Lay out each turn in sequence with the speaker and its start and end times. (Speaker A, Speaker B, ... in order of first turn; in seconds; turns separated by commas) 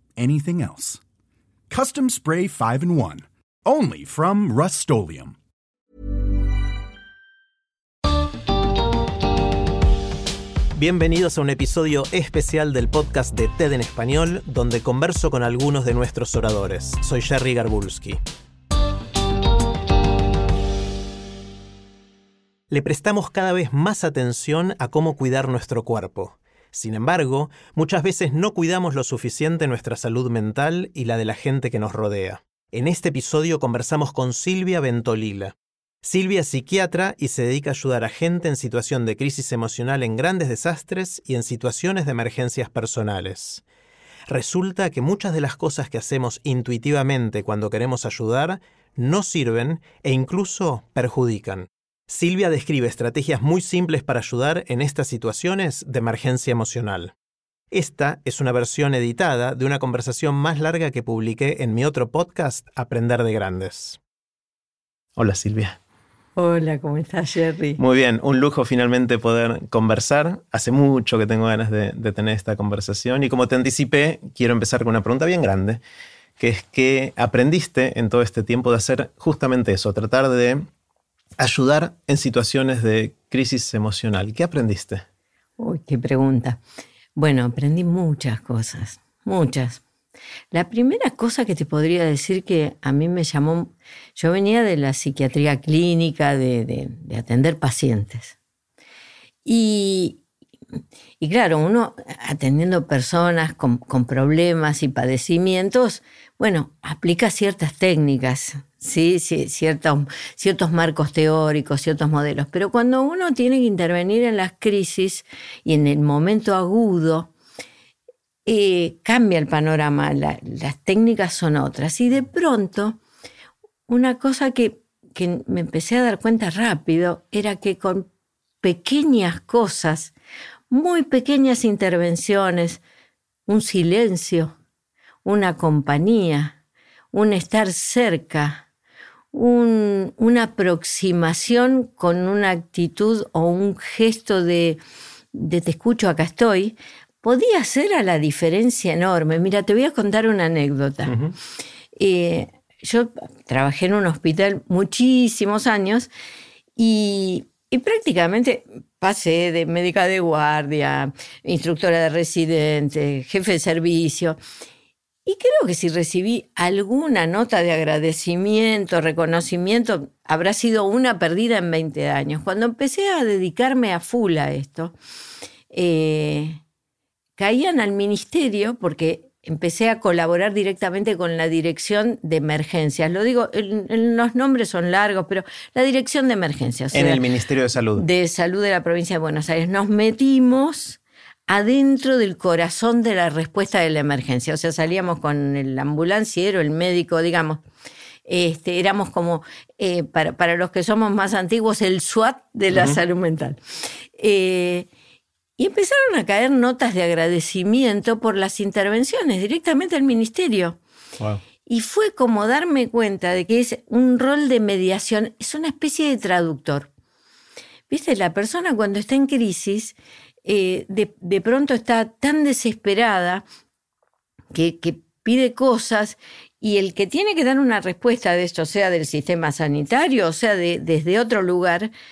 Speaker A: 0.2-1.0, Speaker A: 1.7-5.3, Speaker B: 10.7-18.2, Speaker B: 22.7-43.6, Speaker B: 44.3-57.1, Speaker B: 57.7-64.0, Speaker B: 65.2-65.8, Speaker C: 66.3-67.8, Speaker B: 67.8-75.8, Speaker B: 76.4-80.6, Speaker B: 81.4-85.0, Speaker C: 85.6-86.6, Speaker C: 87.2-89.8, Speaker C: 90.5-98.3, Speaker C: 99.5-100.2, Speaker C: 101.2-117.3, Speaker C: 118.5-123.0, Speaker C: 123.9-128.1, Speaker C: 128.6-130.1, Speaker C: 130.7-132.8, Speaker C: 133.5-134.5, Speaker C: 135.2-136.5, Speaker C: 137.1-138.6, Speaker C: 139.3-144.8, Speaker C: 145.3-151.1, Speaker B: 151.1-151.3, Speaker C: 151.9-156.1, Speaker C: 156.8-164.4, Speaker C: 165.2-174.9, Speaker C: 175.7-176.6, Speaker C: 177.4-187.2, Speaker B: 186.9-188.1, Speaker C: 187.9-197.6, Speaker C: 198.2-203.6, Speaker B: 202.7-203.0, Speaker C: 204.2-204.9, Speaker C: 205.6-210.8, Speaker C: 211.7-216.9, Speaker C: 217.9-223.4, Speaker C: 224.5-231.9